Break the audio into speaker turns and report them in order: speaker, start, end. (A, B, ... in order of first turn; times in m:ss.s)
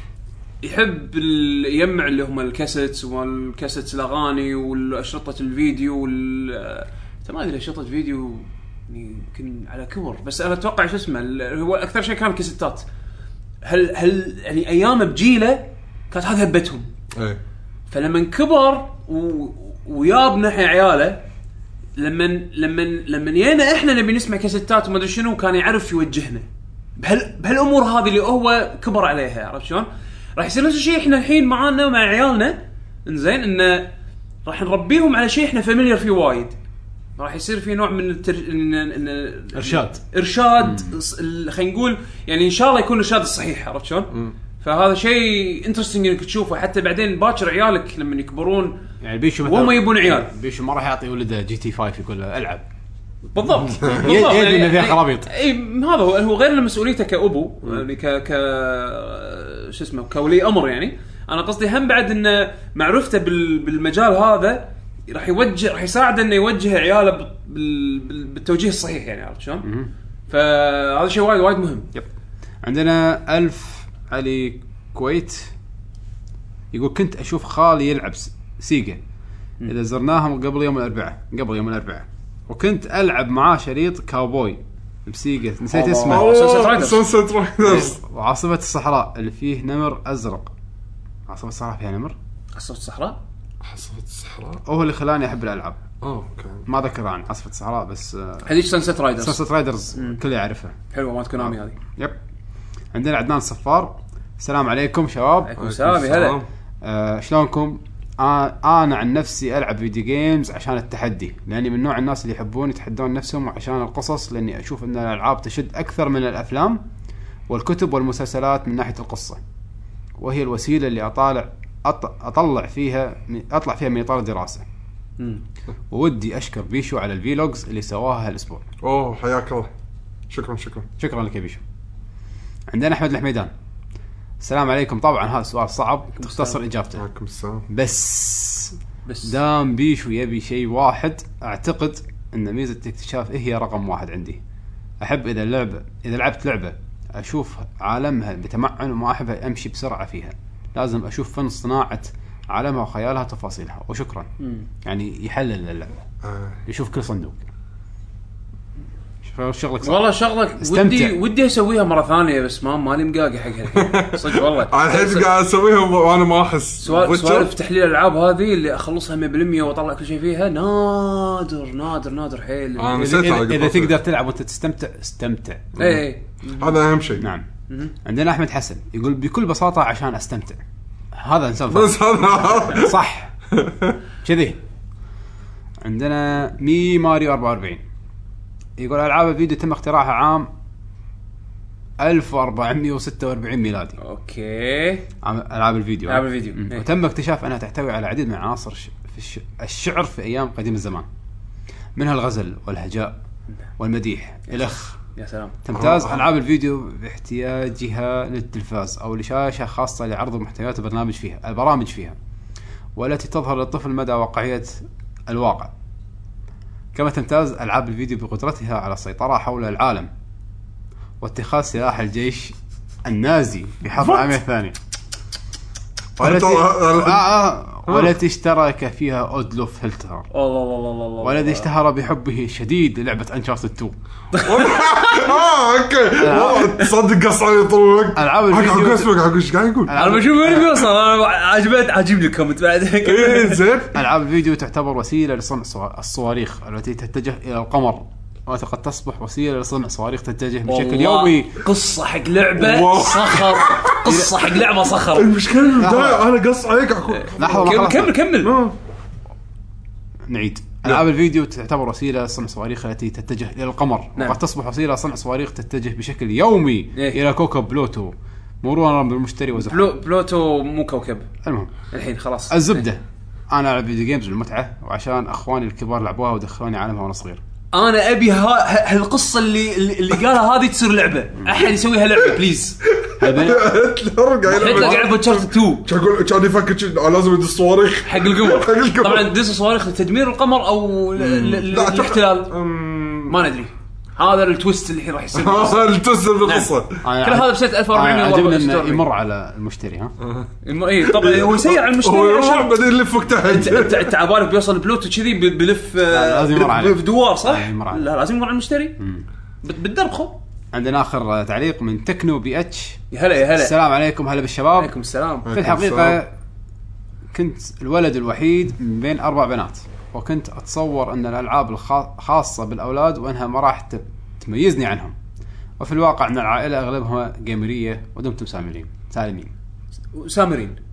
0:00.6-0:12.8 A
0:13.6-0:16.9 A
0:17.9-0:21.2 A
0:22.0-0:26.4 A
0:27.0-0:33.9 A
0:34.4-0:36.5 A
0:37.2-0:48.8 A
0:39.5-0:40.0 B
0:40.6-0:40.9 B
0:49.0-0:52.6 B
0:49.4-0:50.3 A
0:53.3-1:09.6 A
0:53.8-0:54.2 C
0:53.9-0:55.3 B
1:09.6-1:09.9 B
1:10.3-1:11.8 A
1:12.6-1:15.5 B
1:16.7-1:19.0 B
1:19.6-1:26.3 B
1:25.7-1:27.0 A
1:26.0-1:28.0 C
1:27.6-1:30.5 B
1:31.3-1:32.2 B
1:32.5-1:33.2 A
1:33.6-1:34.6 C
1:34.6-1:35.8 B
1:36.0-1:36.6 C
1:36.6-1:38.5 B
1:38.4-1:39.4 A
1:39.2-1:40.8 B
1:40.9-1:41.8 A
1:41.4-1:42.2 B
1:42.9-1:45.6 B
1:45.5-1:46.4 A
1:45.6-1:46.4 C
1:46.8-1:56.8 B
1:57.5-1:59.4 B
2:00.2-2:04.6 B
2:05.2-2:05.4 A
2:05.9-2:08.6 B
2:08.8-2:09.7 C
2:10.3-2:10.8 C
2:11.0-2:11.6 B
2:12.7-2:13.5 B
2:14.4-2:17.0 B
2:16.2-2:16.6 A
2:17.0-2:17.6 C
2:17.7-2:24.4 B
2:19.0-2:19.3 A
2:25.0-2:34.3 B
2:34.4-2:34.6 A
2:34.8-2:36.0 B
2:36.2-2:36.6 C
2:36.6-2:37.4 B
2:39.2-2:40.1 B
2:39.8-2:45.3 A
2:40.6-2:41.1 B
2:43.7-2:47.5 C
2:46.8-2:53.3 A
2:52.8-2:53.9 C
2:53.0-2:55.8 B
2:55.7-2:56.0 C
2:55.8-2:56.8 A
2:56.6-2:57.2 C
2:57.2-2:57.4 B
2:57.7-2:57.9 A
2:58.0-3:00.6 B
3:01.1-3:03.3 B
3:01.7-3:02.9 C
3:03.5-3:04.0 C
3:04.2-3:04.6 B
3:05.8-3:07.8 B
3:08.8-3:10.5 B
3:12.0-3:14.0 B
3:14.0-3:15.0 A
3:15.2-3:21.1 B
3:16.1-3:16.8 A
3:22.0-3:23.2 B
3:23.8-3:25.0 B
3:24.5-3:25.6 A
3:25.6-3:32.2 B
3:25.7-3:26.2 C
3:33.0-3:35.7 B
3:36.9-3:40.1 B
3:41.2-3:44.8 B
3:44.0-3:44.3 C
3:46.2-3:47.3 C
3:46.2-3:50.3 B
3:47.9-3:48.1 C
3:50.3-3:51.7 A
3:51.2-3:54.0 B
3:54.3-3:55.4 A
3:54.4-4:00.0 C
3:56.2-3:56.8 B
3:56.6-3:56.9 A
3:58.1-3:59.1 B
3:59.9-4:00.7 B
4:00.0-4:03.6 A
4:03.0-4:03.9 C
4:03.9-4:11.6 B
4:10.7-4:15.3 A
4:12.5-4:14.6 C
4:14.0-4:14.3 B
4:15.1-4:17.8 C
4:15.8-4:16.3 B
4:17.2-4:18.5 A
4:17.4-4:18.2 B
4:18.4-4:18.7 C
4:20.3-4:29.9 B
4:29.5-4:31.2 A
4:31.4-4:31.7 B
4:31.9-4:32.9 A
4:32.5-4:37.4 B
4:37.7-4:42.8 A
4:42.9-4:49.3 C
4:43.2-4:43.7 B
4:44.5-4:45.8 A
4:44.5-4:44.9 B
4:48.0-4:52.5 A
4:51.2-4:53.5 C
4:53.3-4:55.9 A
4:55.3-4:57.0 C
4:56.4-4:59.0 A
4:57.0-5:00.1 B
5:00.2-5:04.1 C
5:00.6-5:02.8 A
5:03.4-5:09.0 A
5:06.1-5:08.0 B
5:09.0-5:09.2 B
5:09.6-5:10.3 A
5:10.7-5:14.9 B
5:13.1-5:13.7 A
5:14.8-5:15.5 A
5:15.4-5:16.2 C
5:15.5-5:16.3 B
5:17.3-5:25.1 B
5:25.8-5:29.5 B
5:30.1-5:30.8 A